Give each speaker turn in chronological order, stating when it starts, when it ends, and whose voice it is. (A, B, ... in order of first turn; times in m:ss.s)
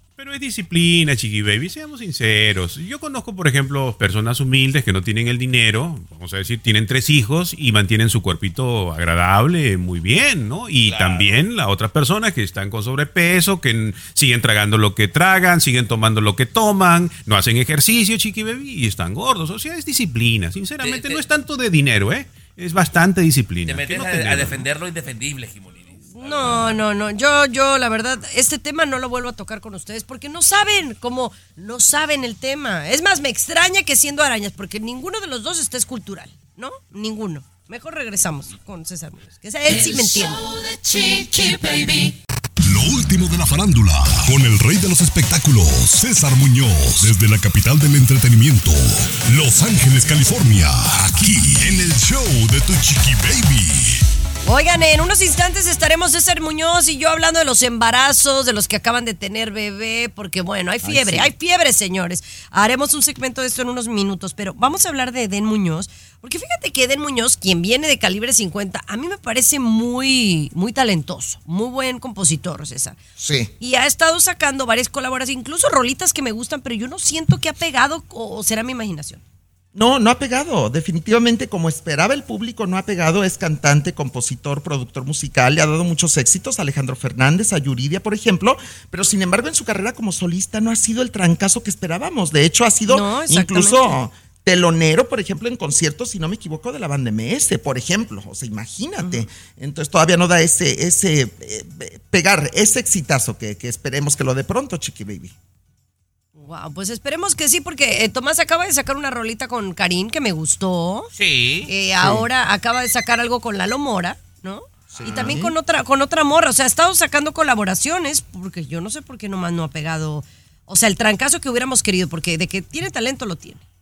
0:00.2-0:24.6 A
0:10.9-0:11.4 B
0:20.8-0:21.2 B
0:23.7-0:26.7 B
0:26.1-0:40.5 C
0:42.6-0:54.0 D
0:54.4-1:13.0 C
1:00.8-1:01.3 E
1:13.2-1:13.5 E
1:13.6-1:19.2 C
1:19.7-1:45.4 E
1:32.9-1:34.0 C
1:46.4-1:51.1 C
1:51.1-1:51.7 B
1:51.7-2:03.6 C
1:54.9-1:55.5 E